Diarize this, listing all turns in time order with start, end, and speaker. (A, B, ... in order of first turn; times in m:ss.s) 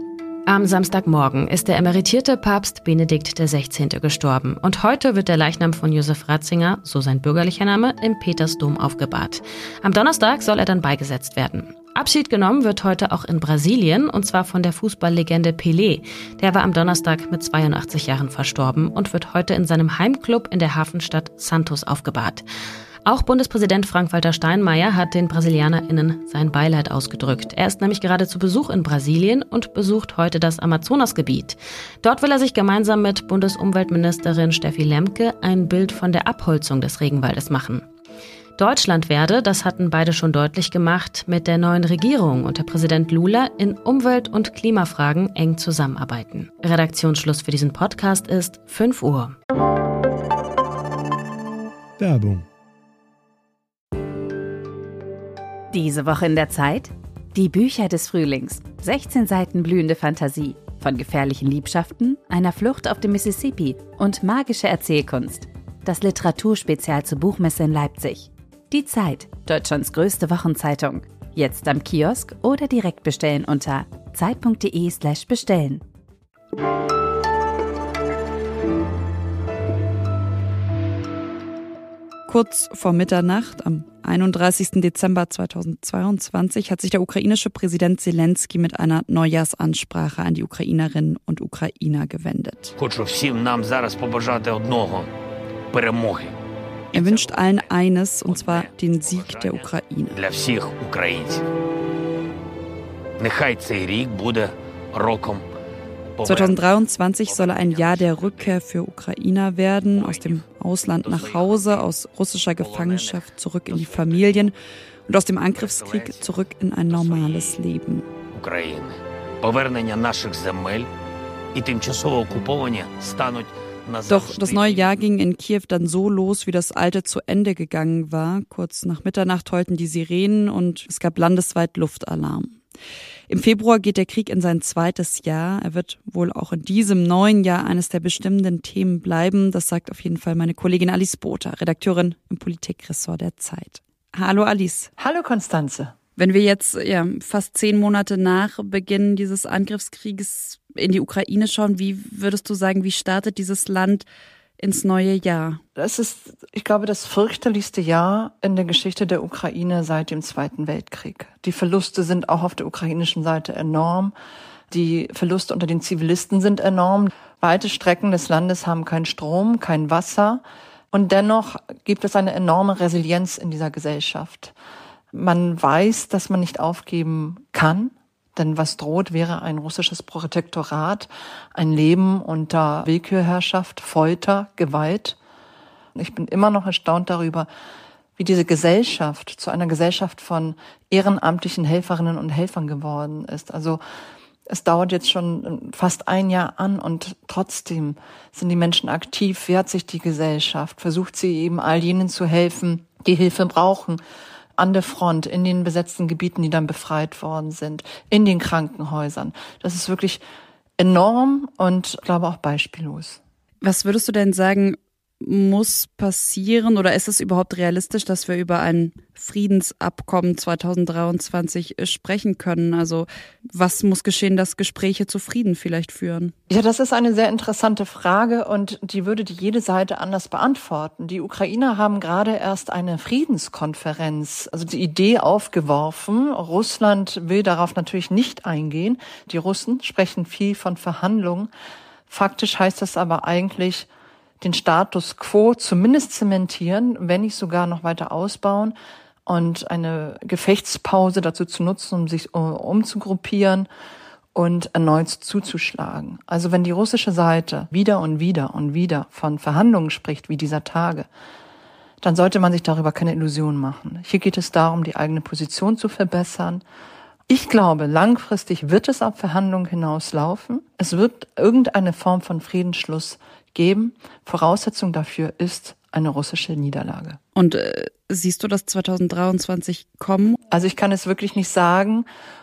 0:00.5-0:22.4 A
0:23.0-0:37.8 A
0:38.6-0:49.4 A
0:55.7-1:15.8 B
1:22.3-1:32.7 C
1:32.8-1:35.1 D
1:35.7-1:36.4 D
1:36.9-1:40.2 C
1:36.9-1:41.4 D
1:43.2-1:45.4 D
1:46.2-1:46.7 D
1:46.2-1:54.5 C
1:47.2-1:48.6 D
1:49.9-1:50.4 D
1:51.0-1:51.9 D
1:52.6-1:54.5 D
1:55.1-1:58.0 C
1:55.5-1:56.3 D
1:56.9-1:57.6 D
1:58.3-2:00.9 D
2:01.5-2:04.9 D
2:04.1-2:12.6 C
2:13.3-2:24.9 C
2:25.0-2:25.9 E
2:26.2-2:34.0 C
2:34.6-2:35.6 C
2:35.8-2:44.1 E
2:44.7-2:54.5 E
2:55.1-3:05.2 E
3:06.0-3:07.5 E
3:08.2-3:13.8 E
3:14.5-3:24.0 E
3:24.6-3:30.2 E
3:30.8-3:33.2 E
3:33.6-3:46.3 C
3:46.5-4:01.5 E
4:02.1-4:03.9 E
4:04.4-4:13.7 E
4:14.3-4:21.1 E
4:22.0-4:26.6 E
4:27.3-4:37.2 E
4:37.3-4:40.4 C
4:40.5-4:42.0 E